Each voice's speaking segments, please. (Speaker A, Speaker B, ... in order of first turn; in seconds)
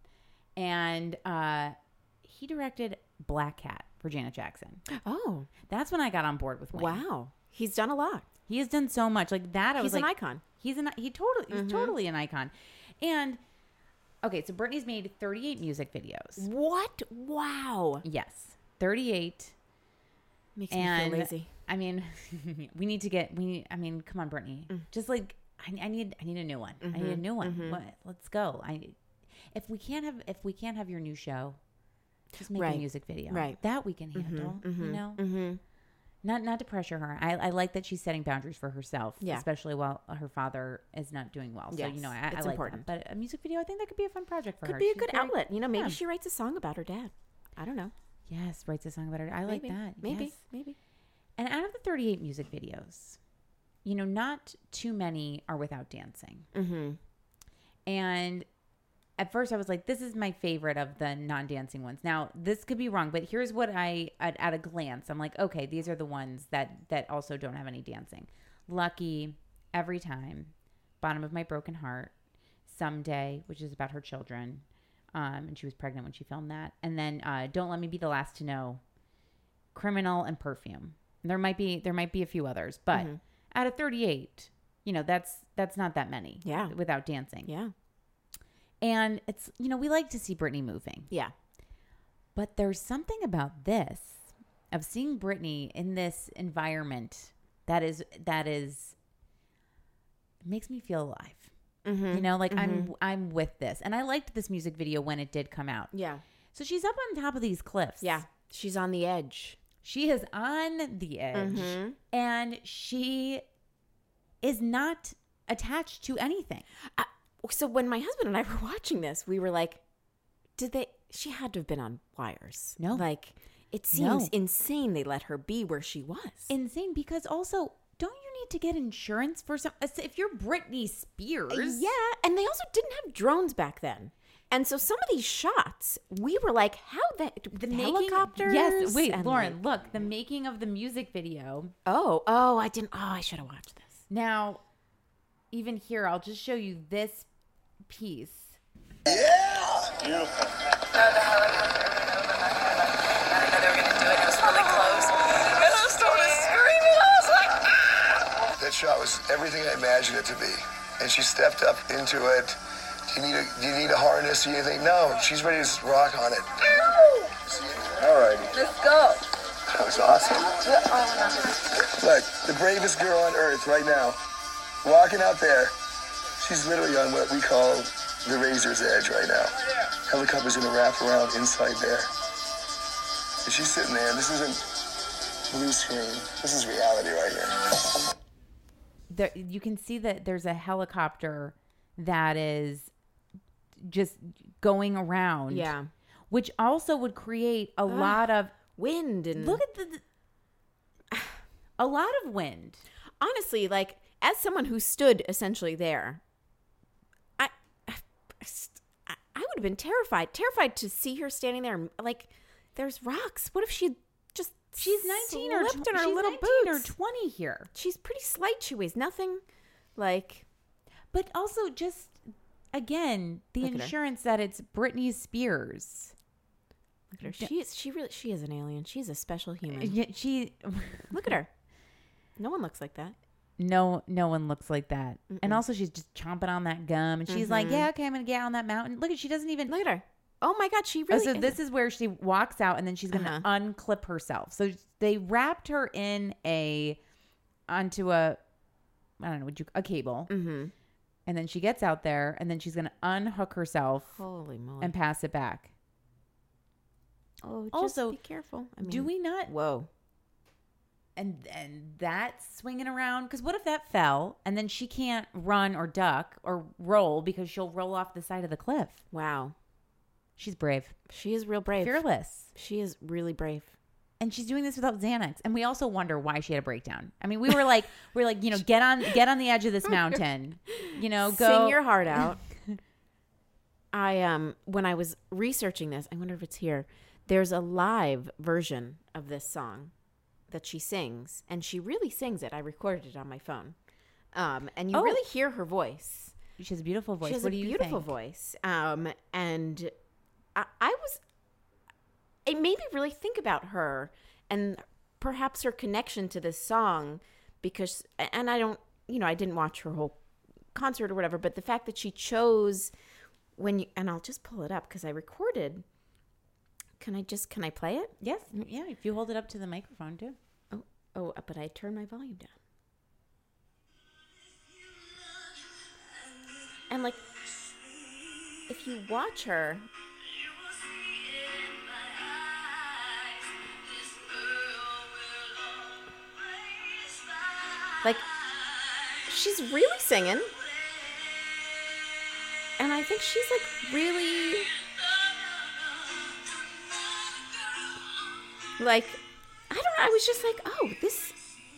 Speaker A: 0.6-4.8, 5.7-7.0, 8.5-13.4, 14.2-16.5, 18.0-19.5, 20.7-29.0, 29.5-31.6, 32.4-35.2, 36.2-46.0, 48.3-50.3, 51.4-53.2, 53.8-56.5, 57.9-58.5, 59.2-72.1, 72.7-78.8, 79.7-87.5, 88.8-91.1, 92.3-99.0, 100.4-101.5, 102.1-105.9, 106.5-108.2, 109.8-113.4, 114.4-116.7, 122.8-123.1, 123.9-124.3, 126.5-131.8, 137.5-141.7, 144.1-144.6, 145.5-147.3, 147.9-148.6, 189.1-192.9, 193.8-195.7, 196.3-198.6, 199.3-200.0, 201.8-202.8, 214.8-217.7, 221.1-226.1, 227.2-227.5, 229.7-231.3, 233.6-239.7, 241.1-247.0, 247.7-248.4, 249.2-250.3, 251.2-254.2, 254.8-255.7, 257.7-258.2, 258.8-259.5, 261.1-269.0, 270.4-270.9, 271.8-272.5, 274.2-281.8, 294.9-295.2, 296.6-298.1, 318.2-320.4
Speaker B: 4.9-5.5, 6.7-8.3, 9.8-10.4, 11.5-11.9, 16.4-18.0, 20.5-21.5, 26.8-27.8, 32.5-33.6, 34.1-35.6, 41.7-42.9, 44.6-47.9, 49.5-50.8, 56.5-57.0, 82.9-83.2, 86.4-86.7, 87.4-87.7, 101.8-102.9, 105.9-106.2, 108.0-109.6, 111.3-112.0, 116.9-119.8, 120.6-126.5, 131.5-139.6, 141.8-144.0, 195.5-195.9, 197.9-199.6, 201.1-201.4, 203.2-206.2, 207.4-216.9, 217.7-219.4, 219.9-220.4, 223.6-223.9, 227.1-229.9, 231.1-231.5, 232.4-233.2, 235.3-235.6, 237.3-237.9, 239.7-241.6, 243.1-243.4, 250.3-250.7, 254.1-254.9, 257.4-259.9, 269.1-269.5, 271.1-272.0, 272.5-273.7, 281.2-282.4, 283.9-289.9, 290.5-293.8, 294.3-296.4, 297.2-299.9, 300.5-301.2, 302.4-310.2, 310.7-312.9, 313.6-315.8, 317.0-318.1, 320.7-322.6, 326.9-327.2, 328.7-329.9, 338.0-338.2, 339.2-340.5, 342.8-344.7, 348.8-351.4
Speaker C: 149.1-150.3, 154.5-154.9, 155.7-157.4, 158.6-162.6, 163.1-168.9, 169.7-170.7, 171.9-174.2, 174.8-175.7, 176.4-179.5, 180.1-182.1, 183.4-184.6, 185.5-187.6